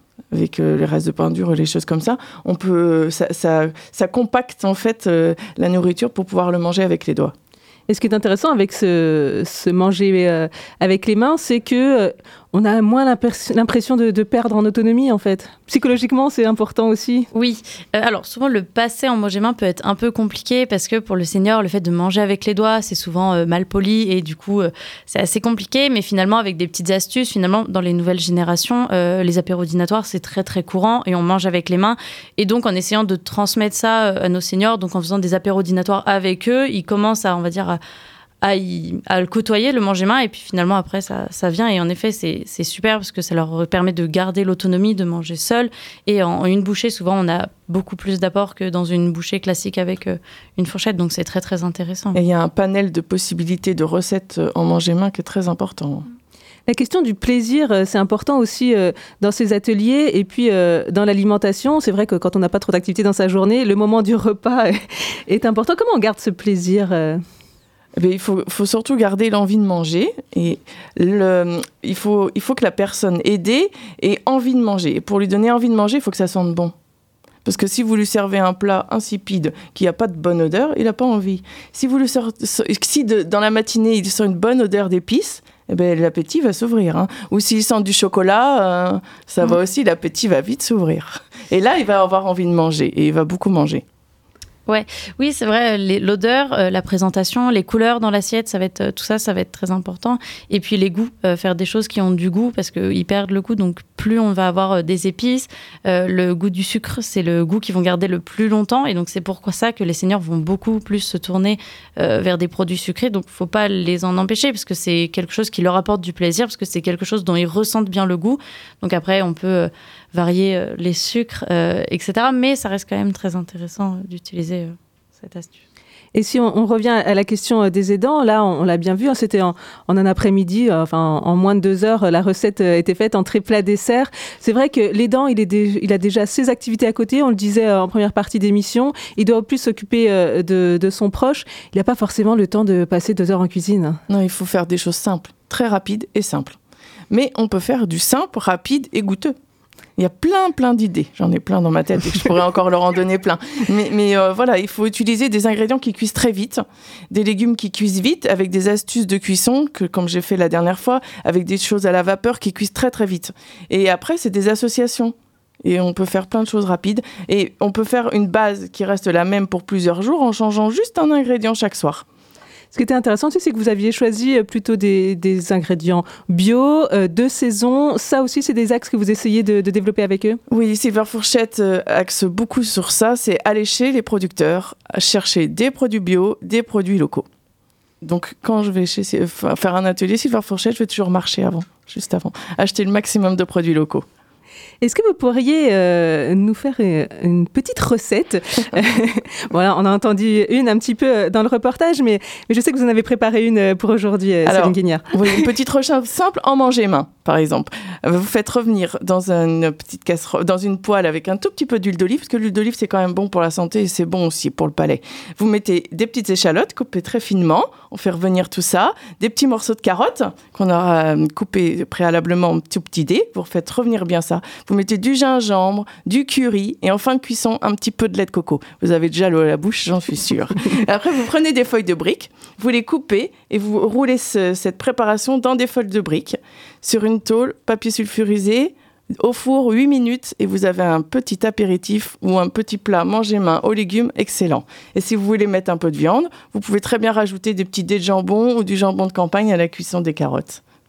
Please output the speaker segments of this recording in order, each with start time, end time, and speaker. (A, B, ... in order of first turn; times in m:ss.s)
0:00.3-0:07.3 A
0:07.9-0:17.3 B
0:17.3-0:37.8 C
0:38.4-0:52.2 C
0:52.1-0:56.0 A
0:56.7-1:07.2 B
1:08.0-1:16.7 A
1:17.4-1:33.8 A
1:34.7-2:05.5 C
2:06.1-2:24.0 B
2:24.1-2:26.6 A
2:27.1-2:29.3 A
2:30.0-2:52.0 A
2:52.7-3:00.4 B
3:00.5-3:07.2 A
3:08.0-3:14.0 A
3:14.8-3:25.3 B
3:24.4-4:10.6 A